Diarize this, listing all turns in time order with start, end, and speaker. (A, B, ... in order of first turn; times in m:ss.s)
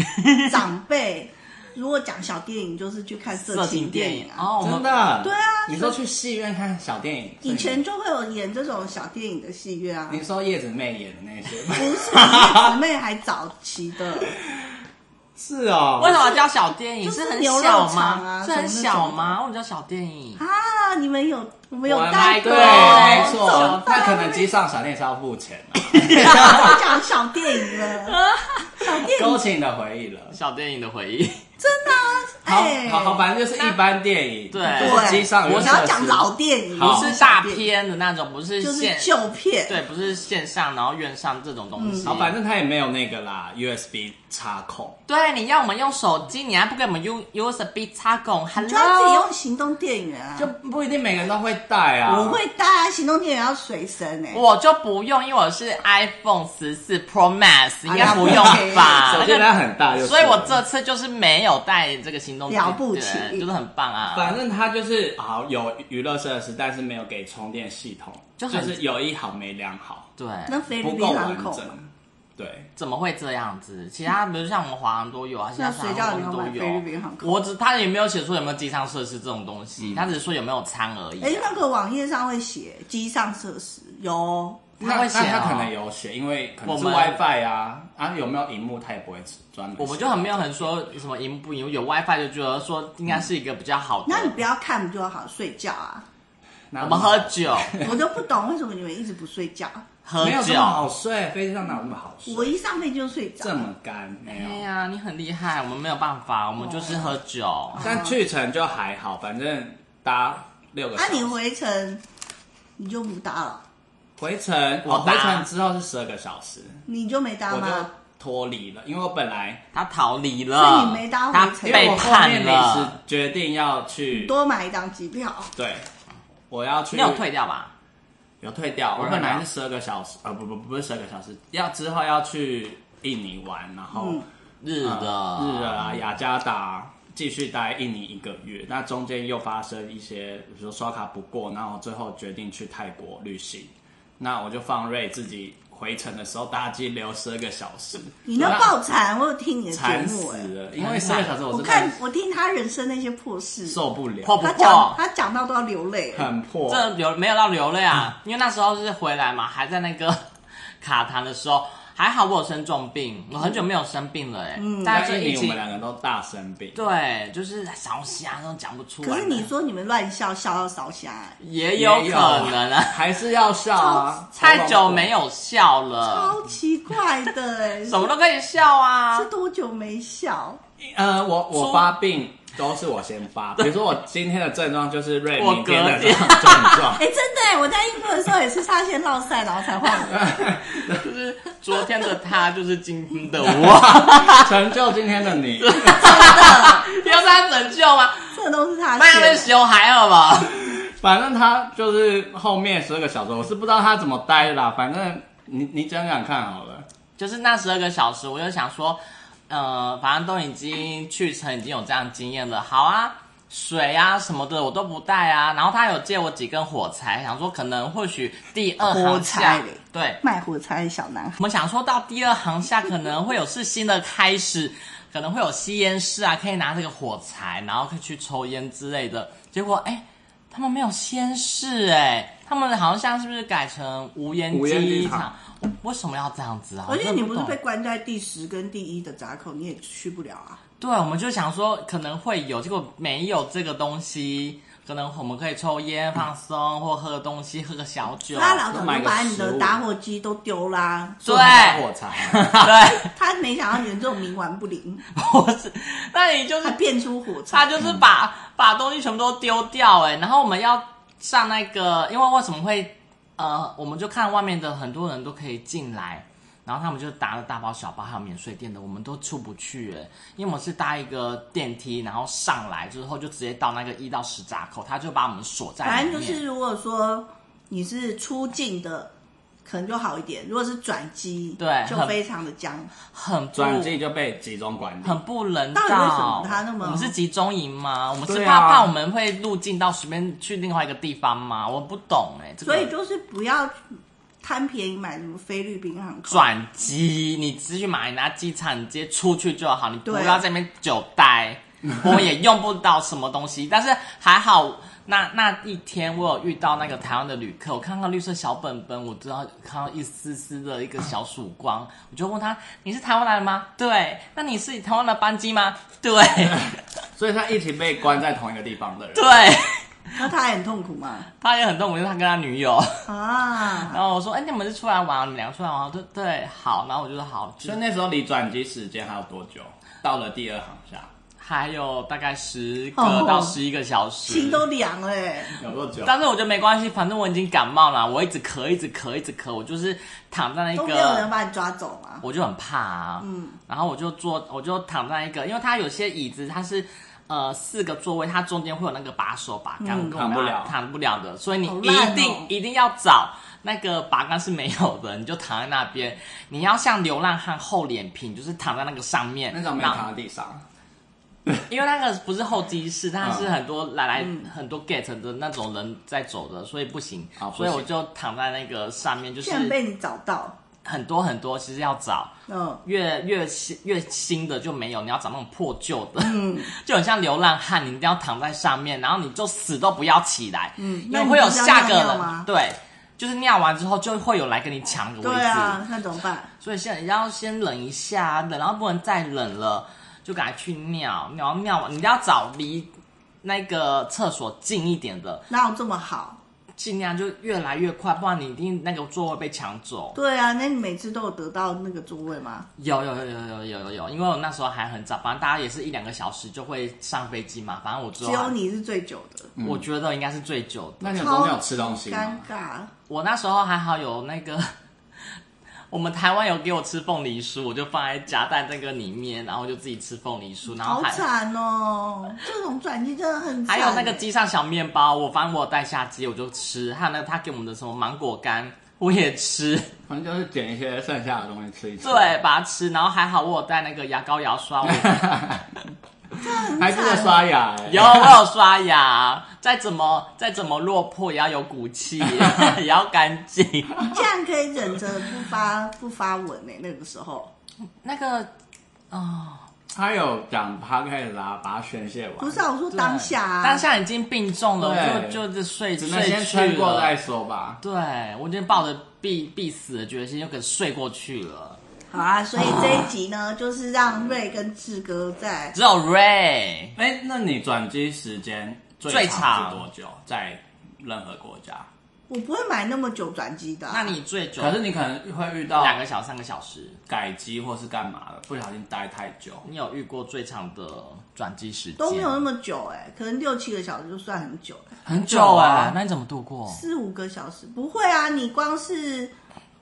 0:00.1-0:00.6 A
0:00.4-0:04.5 B
0:03.4-0:05.1 A
0:04.6-0:07.8 C
0:05.2-0:06.0 B
0:07.4-0:10.2 B
0:10.1-0:12.8 C
0:11.7-0:14.3 B
0:14.2-0:14.8 C
0:15.4-0:16.2 C
0:16.0-0:20.4 A
0:16.0-0:16.5 B
0:17.0-0:19.4 B
0:20.4-0:24.5 B
0:21.8-0:26.8 C
0:22.1-0:24.2 A
0:25.9-0:26.8 A
0:26.2-0:28.2 B
0:27.7-0:28.9 A
0:28.8-0:29.4 B
0:28.9-0:30.4 C
0:30.3-0:31.4 A
0:31.6-0:33.3 B
0:32.4-0:37.2 C
0:34.5-0:35.9 A
0:34.6-0:37.7 B
0:36.8-0:39.1 A
0:38.6-0:39.8 B
0:39.6-0:42.3 A
0:41.8-0:42.2 B
0:42.0-0:45.0 C
0:45.1-0:49.3 A
0:48.5-0:50.5 B
0:50.4-0:52.4 C
0:52.0-0:54.4 B
0:54.3-1:04.4 A
0:57.8-0:59.2 B
0:58.0-1:00.6 C
1:02.5-1:03.4 B
1:04.1-1:10.1 C
1:08.4-1:08.8 A
1:10.2-1:10.6 A
1:10.5-1:11.8 B
1:10.8-1:12.7 C
1:12.8-1:21.6 A
1:15.6-1:17.4 B
1:19.8-1:20.1 C
1:21.2-1:24.8 B
1:24.8-1:25.7 A
1:24.8-1:30.6 C
1:26.6-1:27.2 A
1:29.8-1:34.4 A
1:34.0-1:36.0 B
1:36.7-1:38.0 C
1:36.8-1:37.8 A
1:37.8-1:39.8 B
1:40.0-1:40.9 A
1:40.2-1:42.5 C
1:42.2-1:43.7 B
1:43.4-1:44.6 C
1:44.2-1:48.0 A
1:46.6-1:47.2 B
1:47.7-1:48.2 B
1:47.8-1:51.4 C
1:51.0-1:52.0 B
1:52.8-1:53.6 B
1:54.2-1:56.8 C
1:54.8-1:55.5 A
1:56.9-1:57.9 B
1:57.5-1:59.6 C
1:59.7-2:03.0 A
2:00.5-2:01.9 B
2:01.6-2:04.3 C
2:04.1-2:05.5 B
2:05.6-2:05.9 C
2:06.5-2:07.2 C
2:06.9-2:07.7 A
2:08.4-2:14.2 C
2:09.0-2:09.4 A
2:13.9-2:14.2 B
2:14.6-2:16.0 A
2:14.8-2:28.7 C
2:28.2-2:30.5 B
2:28.4-2:28.7 A
2:29.7-2:32.0 C
2:30.8-2:31.4 A
2:31.5-2:33.8 B
2:33.6-2:34.4 C
2:34.2-2:35.0 A
2:34.4-2:36.3 B
2:36.1-2:36.9 C
2:36.7-2:40.2 A
2:40.8-2:45.6 A
2:44.6-2:45.1 B
2:44.9-2:46.8 C
2:46.7-2:49.5 A
2:49.0-2:51.4 B
2:51.4-2:53.0 A
2:51.8-2:55.1 C
2:53.7-2:54.2 B
2:54.4-2:56.4 A
2:56.0-2:58.1 B
2:57.8-2:59.3 A
2:59.1-3:00.6 B
3:00.8-3:07.0 C
3:01.5-3:01.9 A
3:05.4-3:07.0 A
3:06.9-3:10.5 B
3:10.1-3:11.0 C
3:10.7-3:14.5 A
3:13.5-3:16.7 C
3:15.6-3:18.4 A
3:16.1-3:16.4 B
3:18.3-3:19.5 B
3:19.0-3:20.6 A
3:20.5-3:26.9 C
3:27.2-3:40.2 A
3:38.8-3:41.4 B
3:41.4-3:57.6 A
3:54.5-3:55.3 C
3:56.9-4:00.6 B
4:00.8-4:08.6 A
4:08.3-4:11.2 B
4:08.7-4:09.8 C
4:11.2-4:12.9 C
4:11.2-4:13.1 A
4:13.1-4:15.0 B
4:15.1-4:16.8 A
4:16.6-4:18.0 B
4:17.5-4:36.4 A
4:35.8-4:39.1 B
4:39.6-4:42.9 B
4:41.6-4:42.2 A
4:43.1-4:43.9 A
4:43.5-4:45.2 C
4:45.0-4:52.9 A
4:45.7-4:47.1 B
4:48.3-4:48.9 C
4:52.6-4:53.7 B
4:54.4-4:56.5 B
4:56.3-5:16.8 A
5:00.0-5:00.4 B
5:17.2-5:19.4 C
5:19.1-5:20.2 A
5:20.1-5:21.3 B
5:21.4-5:23.1 A
5:23.0-5:24.0 B
5:23.6-5:27.8 A
5:27.6-5:31.1 C
5:31.4-5:34.7 A
5:33.0-5:33.6 B
5:34.3-5:35.6 B
5:35.6-5:36.2 C
5:36.0-5:41.3 A
5:40.8-5:42.2 B
5:42.2-6:00.1 A
5:43.2-5:43.6 B
5:49.8-5:50.2 B
5:50.1-5:50.8 C
5:51.6-5:52.5 B
5:59.5-6:00.6 C
6:01.7-6:09.8 A
6:03.2-6:03.5 C
6:04.2-6:04.5 B
6:07.4-6:07.9 C
6:09.4-6:10.6 B
6:10.8-6:12.3 A
6:12.5-6:12.8 B
6:12.8-6:25.8 A
6:16.2-6:16.7 B
6:20.8-6:22.5 B
6:25.2-6:26.5 B
6:26.6-6:32.9 A
6:33.4-6:35.5 A
6:35.5-6:36.4 B
6:36.8-6:40.2 A
6:40.2-6:42.7 B
6:42.8-6:48.6 A
6:48.2-6:49.5 B
6:49.6-6:49.8 C
6:49.6-6:51.3 A
6:51.0-6:52.5 C
6:51.2-6:52.9 B
6:53.1-6:54.7 A
6:55.9-7:01.2 A
7:00.6-7:04.3 B
7:03.6-7:09.9 A
7:10.1-7:12.3 C
7:12.0-7:15.3 A
7:14.8-7:15.7 C
7:16.4-7:17.5 B
7:16.6-7:18.4 C
7:17.8-7:24.1 A
7:22.4-7:22.7 C
7:24.0-7:27.5 B
7:28.0-7:28.5 A
7:29.1-7:29.7 A
7:29.9-7:32.6 C
7:32.4-7:33.8 B
7:32.9-7:37.2 A
7:34.8-7:35.4 C
7:36.0-7:37.8 C
7:37.8-7:41.8 A
7:42.1-7:45.8 B
7:42.6-7:43.0 A
7:45.7-7:47.0 A
7:47.0-7:51.9 C
7:49.1-7:49.9 A
7:52.3-7:54.2 B
7:53.9-7:54.8 A
7:54.6-7:56.0 C
7:55.7-7:57.0 A
7:57.1-7:59.7 C
7:59.6-8:02.4 A
8:02.0-8:05.0 B
8:05.0-8:06.0 C
8:05.1-8:06.8 A
8:06.7-8:09.3 B